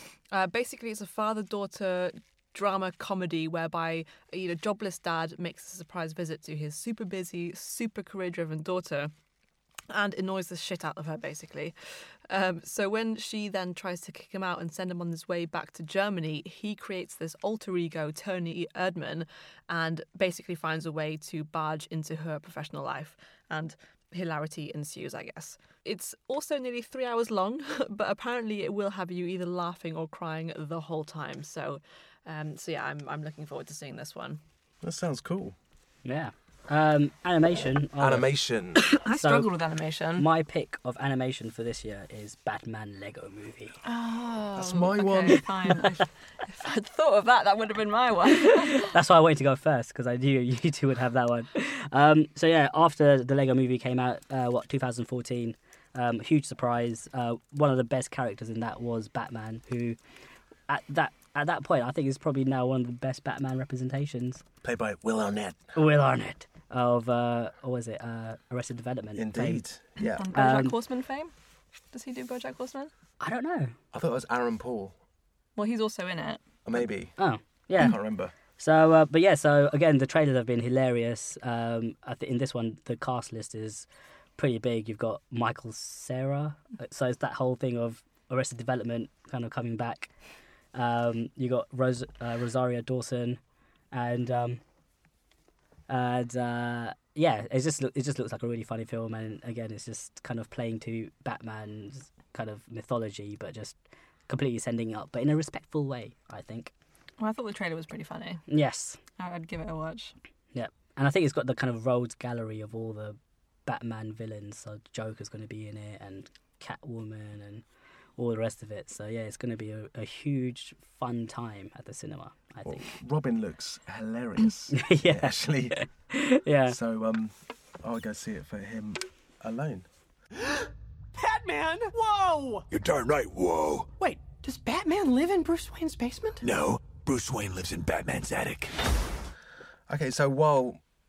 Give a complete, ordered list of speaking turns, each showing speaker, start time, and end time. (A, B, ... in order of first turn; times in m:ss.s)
0:00.3-0:09.1 A
0:09.9-0:11.7 A
0:12.3-0:34.4 A
0:34.8-0:35.6 B
0:36.0-0:38.4 C
0:38.0-0:38.8 B
0:38.8-0:40.3 A
0:39.2-0:39.5 C
0:40.2-0:43.8 C
0:43.8-0:48.9 A
0:44.6-0:45.4 B
0:48.5-1:00.0 C
1:00.7-1:04.4 C
1:04.6-1:05.6 B
1:05.8-1:09.6 C
1:09.2-1:10.3 B
1:10.1-1:11.3 A
1:10.3-1:10.8 C
1:11.9-1:12.9 A
1:13.2-1:13.8 C
1:13.9-1:15.0 B
1:15.6-1:16.4 A
1:16.7-1:17.1 B
1:17.2-1:18.0 C
1:17.8-1:18.3 B
1:18.6-1:30.1 C
1:30.7-1:33.4 C
1:33.9-1:34.6 C
1:35.9-1:43.8 C
1:44.3-1:46.7 C
1:47.2-1:48.4 A
1:48.5-1:49.0 C
1:49.2-1:50.1 A
1:50.5-1:57.6 C
1:58.2-2:02.9 C
2:02.6-2:05.8 B
2:04.7-2:06.8 C
2:06.7-2:09.9 B
2:11.2-2:12.7 D
2:12.7-2:13.9 E
2:14.0-2:16.4 D
2:16.4-2:18.8 E
2:19.9-2:20.8 B